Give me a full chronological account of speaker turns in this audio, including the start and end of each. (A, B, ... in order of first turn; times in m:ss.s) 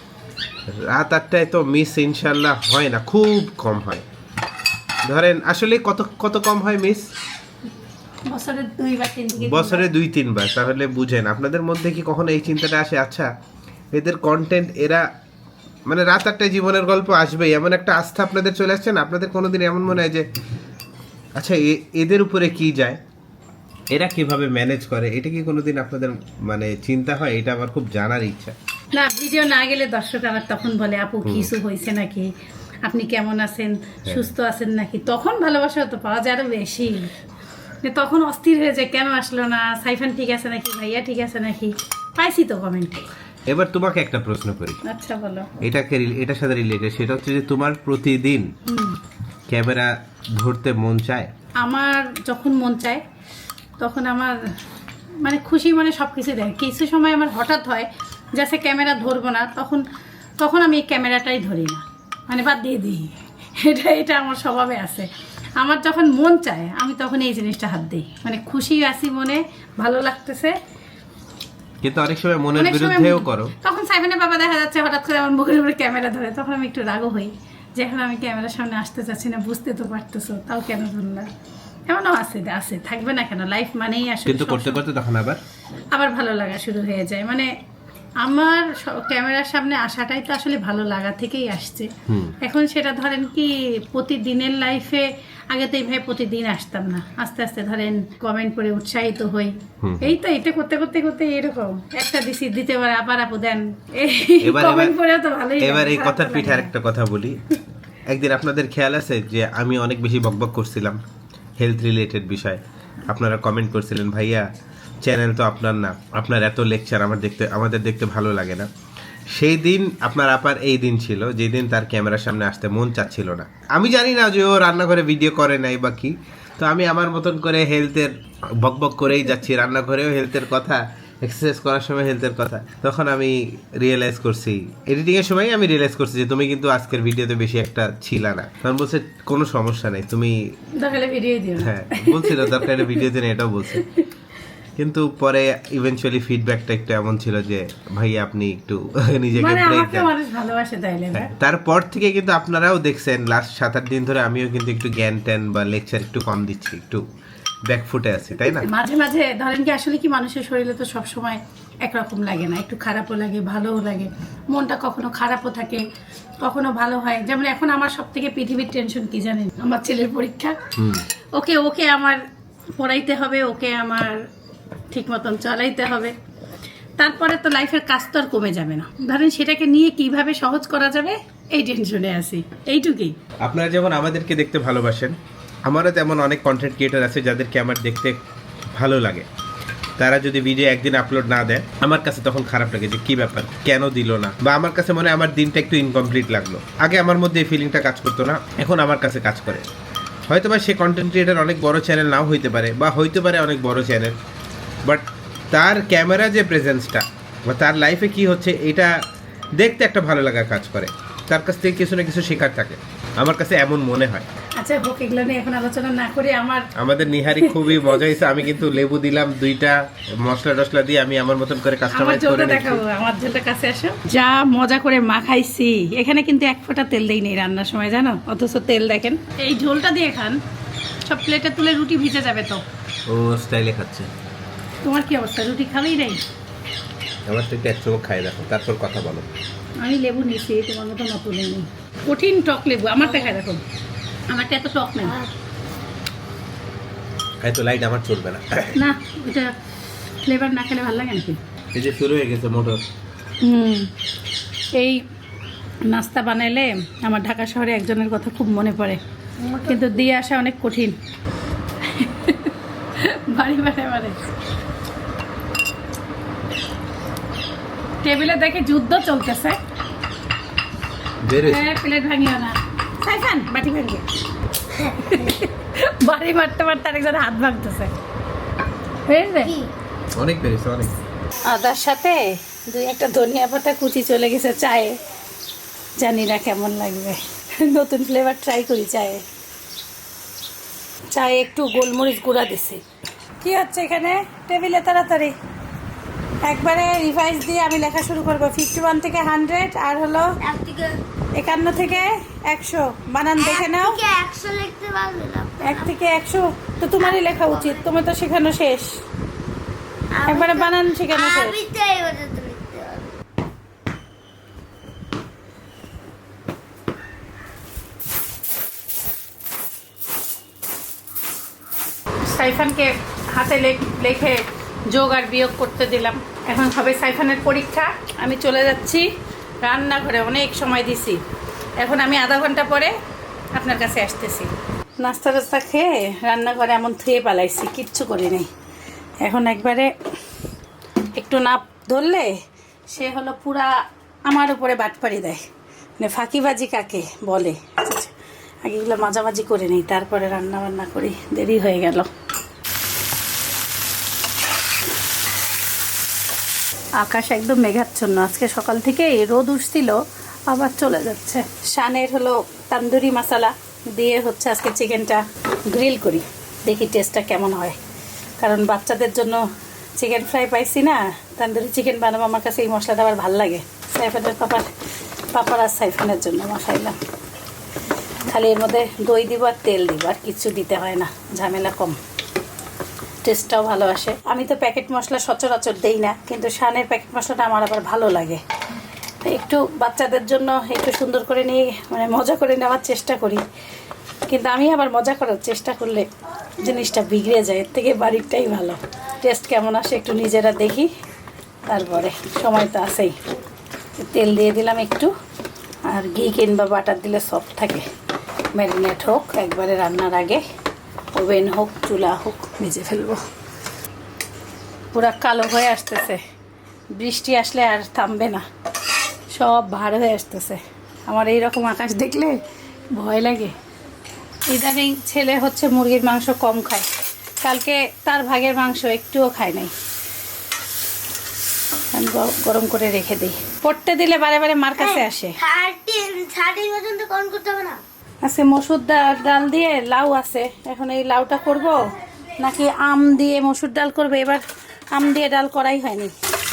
0:00.7-0:04.0 A
0:05.1-0:07.1 A
0:08.3-0:09.9 B
0:09.4-0:13.3 A
0:13.9-0:15.1 A
0:15.9-0:20.3 A
0:21.4-0:23.0 A
0:23.9-0:28.6 A
0:28.9-0:32.3 B
0:31.2-0:31.5 A
0:32.8-0:37.1 B
0:37.8-0:43.0 B
0:43.5-0:44.8 A
0:44.8-0:45.5 B
0:45.6-0:48.5 A
0:48.7-0:49.0 B
0:49.5-0:51.3 A
0:51.6-0:53.0 B
0:53.8-0:54.4 B
0:55.2-0:59.8 B
1:00.4-1:10.6 B
1:11.8-1:13.5 A
1:12.6-1:21.3 B
1:21.9-1:24.8 B
1:24.3-1:25.4 A
1:25.9-1:27.5 B
1:28.2-1:46.7 B
1:32.1-1:32.4 A
1:39.8-1:40.2 A
1:44.4-1:45.0 A
1:45.6-1:47.4 A
1:48.1-1:51.0 A
1:51.6-1:54.5 A
1:55.0-1:58.7 A
1:59.3-2:20.4 A
2:20.8-2:23.0 B
2:21.6-2:23.9 A
2:24.8-2:30.1 A
2:29.4-2:31.3 B
2:31.1-2:37.1 A
2:37.7-2:38.7 A
2:38.5-2:45.8 B
2:46.4-2:50.6 B
2:50.8-2:51.0 A
2:51.3-2:52.2 B
2:52.8-2:54.2 B
2:54.9-2:56.2 B
2:57.0-3:03.2 B
3:03.4-3:09.3 A
3:10.0-3:19.7 A
3:20.3-3:24.2 A
3:24.8-3:28.9 A
3:29.6-3:34.3 A
3:34.6-3:36.7 B
3:36.8-3:42.8 A
3:37.3-3:38.0 B
3:41.9-3:50.4 B
3:51.0-3:52.6 B
3:53.1-3:54.1 A
3:54.8-3:56.2 B
3:57.3-3:59.3 A
3:59.8-4:03.6 B
4:04.3-4:05.2 B
4:07.4-4:08.8 A
4:08.8-4:09.6 B
4:10.2-4:11.4 B
4:11.7-4:12.8 A
4:13.4-4:13.9 B
4:14.7-4:15.0 B
4:15.9-4:19.0 B
4:19.4-4:20.0 C
4:19.6-4:21.0 B
4:21.8-4:24.2 B
4:28.0-4:29.6 B
4:31.2-4:31.7 A
4:31.4-4:34.1 B
4:34.8-4:35.3 C
4:35.0-4:37.9 B
4:39.1-4:39.5 B
4:39.4-4:39.7 C
4:40.2-4:40.9 A
4:41.4-4:45.0 B
4:46.0-4:49.2 B
4:51.1-4:52.8 B
4:53.4-4:55.4 B
4:56.4-5:00.4 B
5:00.4-5:01.0 C
5:01.3-5:04.0 B
5:03.4-5:05.9 C
5:05.6-5:09.0 B
5:07.0-5:07.9 C
5:10.1-5:13.1 C
5:10.3-5:11.6 B
5:22.3-5:29.1 B
5:29.6-5:31.2 B
5:31.8-5:33.0 B
5:33.6-5:38.5 B
5:39.2-5:39.9 B
5:41.2-5:42.3 B
5:42.9-5:45.4 B
5:46.0-5:52.1 B
5:57.0-6:07.8 B
6:08.4-6:14.7 B
6:15.3-6:17.0 B
6:18.3-6:22.0 B
6:23.2-6:28.4 B
6:29.2-6:33.4 B
6:34.3-6:36.1 B
6:36.6-6:40.9 B
6:41.7-6:43.2 B
6:44.0-6:45.1 B
6:45.9-6:47.9 B
6:48.5-6:50.4 B
6:51.1-6:53.2 B
6:54.9-6:56.2 B
6:56.9-6:58.4 B
6:59.3-7:02.4 B
7:03.0-7:03.6 B
7:04.5-7:06.9 B
7:07.4-7:09.7 B
7:11.9-7:15.4 B
7:14.8-7:17.8 C
7:18.2-7:26.1 B